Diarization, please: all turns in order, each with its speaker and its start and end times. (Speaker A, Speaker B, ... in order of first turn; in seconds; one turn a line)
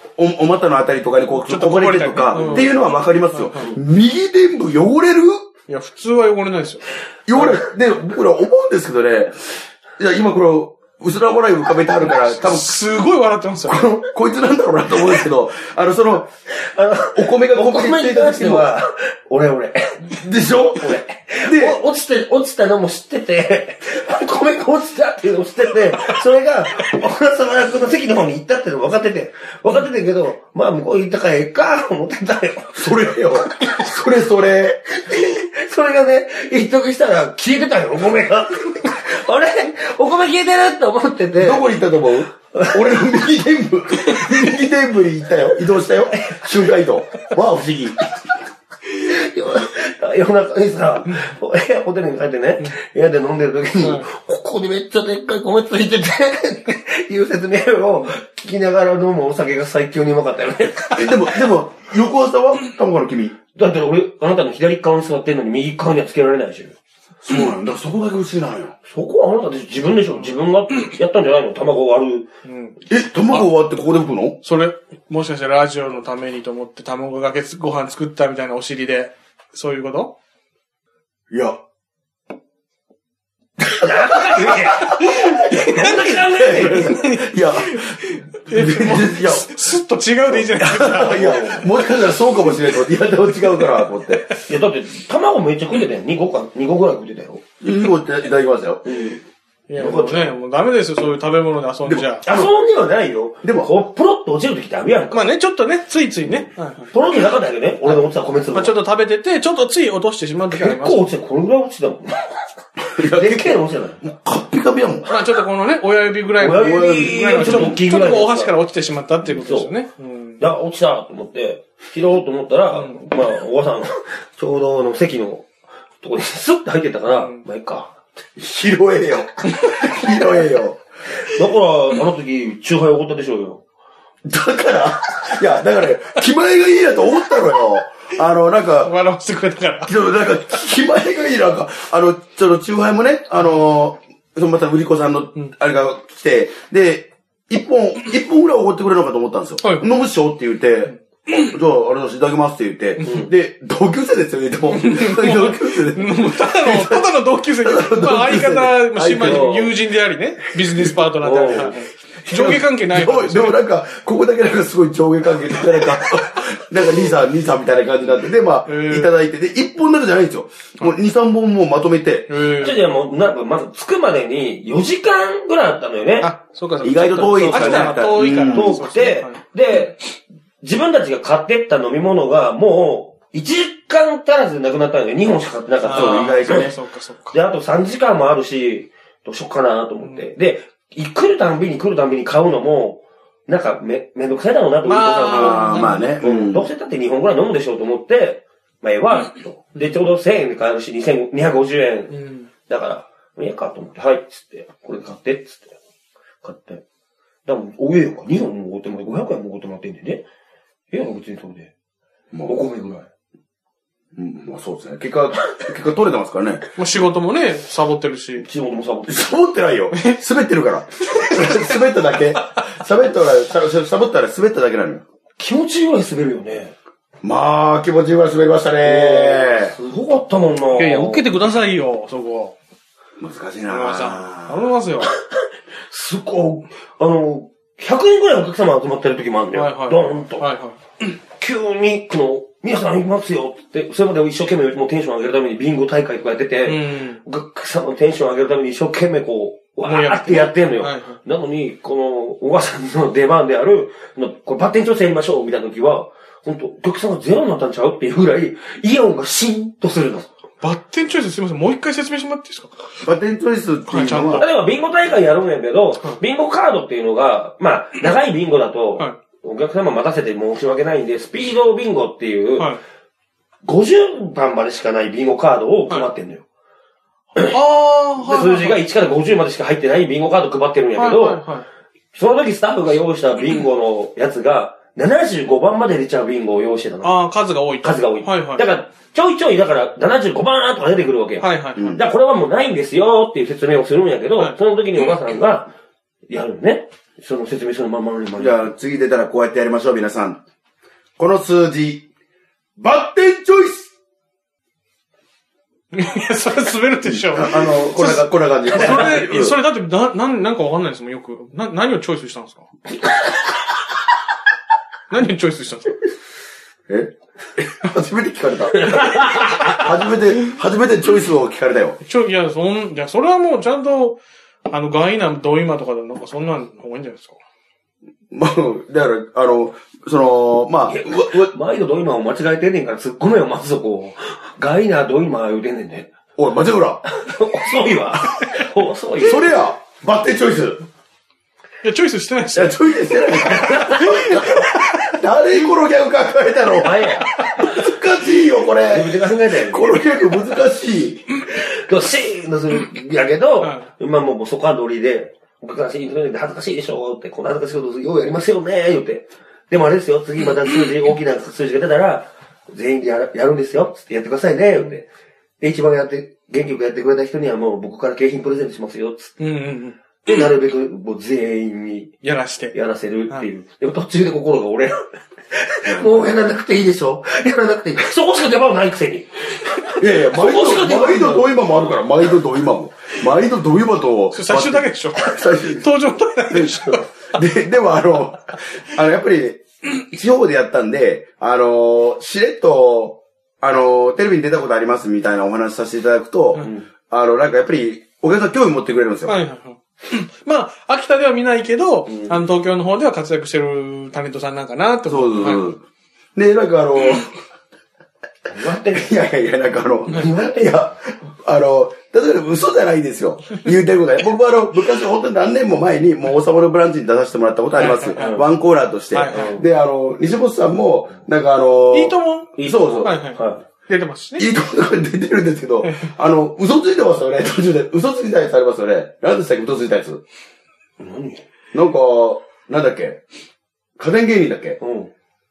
Speaker A: 0.2-5.4
Speaker B: 1.5-3.7
Speaker B: 5.7-6.8
Speaker A: 7.3-12.8
Speaker B: 12.0-13.8
Speaker A: 13.7-16.3
Speaker C: 16.6-20.0
Speaker A: 17.1-18.7
Speaker A: 20.1-21.8
Speaker C: 20.8-34.0
Speaker A: 32.8-34.8
Speaker C: 34.9-41.7
Speaker A: 41.4-48.0
Speaker C: 42.5-42.8
Speaker C: 44.0-44.3
Speaker C: 46.1-46.8
Speaker C: 48.9-61.2
Speaker B: 53.8-54.1
Speaker A: 61.0-63.4
Speaker C: 63.5-66.8
Speaker A: 67.2-68.7
Speaker C: 68.8-72.3
Speaker B: 72.5-72.8
Speaker A: 72.9-74.4
Speaker B: 74.4-80.1
Speaker A: 81.3-81.6
Speaker C: 83.7-86.9
Speaker A: 83.8-89.7
Speaker B: 85.2-91.4
Speaker A: 90.4-94.3
Speaker C: 90.9-91.9
Speaker B: 93.5-93.9
Speaker C: 94.5-97.4
Speaker A: 97.6-98.8
Speaker C: 98.8-99.2
Speaker B: 99.7-102.3
Speaker C: 99.8-100.3
Speaker A: 101.8-102.5
Speaker C: 102.3-105.3
Speaker A: 103.4-103.7
Speaker B: 105.1-106.9
Speaker C: 106.2-108.8
Speaker B: 107.8-111.1
Speaker C: 110.5-112.3
Speaker A: 112.8-115.1
Speaker C: 113.1-114.0
Speaker B: 115.1-120.4
Speaker C: 116.4-118.6
Speaker A: 116.5-117.8
Speaker C: 119.2-119.7
Speaker C: 120.4-125.5
Speaker B: 122.7-123.1
Speaker C: 126.0-128.0
Speaker B: 127.1-127.4
Speaker A: 128.4-130.8
Speaker C: 131.2-133.6
Speaker A: 134.2-138.9
Speaker B: 138.8-140.0
Speaker A: 139.9-159.7
Speaker B: 149.6-149.9
Speaker B: 153.0-153.2
Speaker C: 153.0-153.3
Speaker B: 154.7-163.6
Speaker C: 159.2-159.7
Speaker A: 160.6-161.0
Speaker C: 161.2-161.8
Speaker A: 162.2-172.3
Speaker B: 168.7-169.1
Speaker B: 172.3-172.8
Speaker C: 172.6-176.3
Speaker B: 176.2-179.4
Speaker A: 176.8-178.8
Speaker C: 177.2-180.0
Speaker C: 180.6-186.7
Speaker B: 185.8-187.4
Speaker A: 185.9-186.7
Speaker C: 187.3-205.7
Speaker B: 190.0-190.3
Speaker B: 194.8-196.1
Speaker A: 195.3-196.7
Speaker B: 202.1-202.5
Speaker C: 206.4-206.8
Speaker C: 207.4-210.2
Speaker C: 210.9-211.7
Speaker A: 212.3-212.6
Speaker C: 212.5-213.1
Speaker A: 214.2-216.8
Speaker B: 216.8-218.5
Speaker C: 218.4-219.3
Speaker A: 219.1-225.0
Speaker B: 219.9-220.2
Speaker C: 225.4-226.8
Speaker A: 227.2-229.7
Speaker C: 228.8-231.3
Speaker B: 230.7-232.6
Speaker A: 233.2-234.7
Speaker B: 233.7-235.1
Speaker C: 235.9-240.5
Speaker B: 239.6-240.8
Speaker C: 241.0-260.3
Speaker B: 246.7-247.2
Speaker B: 249.8-251.2
Speaker B: 260.6-262.9
Speaker A: 263.0-264.5
Speaker B: 263.9-264.5
Speaker C: 264.4-272.7
Speaker C: 273.6-276.4
Speaker B: 277.5-278.9
Speaker C: 278.2-281.5
Speaker B: 280.9-281.6
Speaker C: 282.1-287.2
Speaker B: 287.0-288.6
Speaker C: 287.8-295.7
Speaker B: 291.4-291.9
Speaker A: 291.8-292.0
Speaker C: 296.3-298.7
Speaker A: 298.4-300.4
Speaker A: 301.2-302.1
Speaker A: 302.8-303.9
Speaker B: 305.9-312.7
Speaker A: 307.0-309.6
Speaker B: 315.1-316.0
Speaker A: 316.9-322.0
Speaker C: 318.8-319.6
Speaker B: 322.0-327.4
Speaker A: 328.3-331.5
Speaker C: 330.9-336.1
Speaker A: 336.4-337.0
Speaker C: 337.1-339.5
Speaker A: 339.2-340.8
Speaker B: 341.8-344.9
Speaker A: 342.5-349.2
Speaker C: 343.4-344.0
Speaker C: 346.8-347.4
Speaker C: 348.9-350.1
Speaker A: 349.7-351.2
Speaker C: 351.5-365.1
Speaker B: 353.6-353.9
Speaker C: 365.6-369.4
Speaker B: 369.4-370.5
Speaker C: 370.2-372.1
Speaker B: 372.2-372.8
Speaker C: 372.7-375.0
Speaker C: 375.5-381.9
Speaker A: 375.9-376.4
Speaker A: 380.0-385.9
Speaker B: 384.3-387.2
Speaker A: 386.5-399.4
Speaker C: 396.6-396.9
Speaker B: 399.3-405.7
Speaker C: 402.1-402.4
Speaker A: 405.1-405.8
Speaker A: 406.4-407.3
Speaker C: 408.5-409.2
Speaker A: 408.9-423.2
Speaker C: 410.1-410.8
Speaker B: 417.8-418.4
Speaker C: 418.2-418.4
Speaker B: 419.1-419.6
Speaker C: 419.3-419.6
Speaker B: 421.9-424.5
Speaker C: 422.6-423.6
Speaker A: 424.4-430.2
Speaker B: 425.8-426.1
Speaker C: 431.0-431.4
Speaker A: 431.7-433.2
Speaker A: 434.0-434.8
Speaker C: 434.8-435.1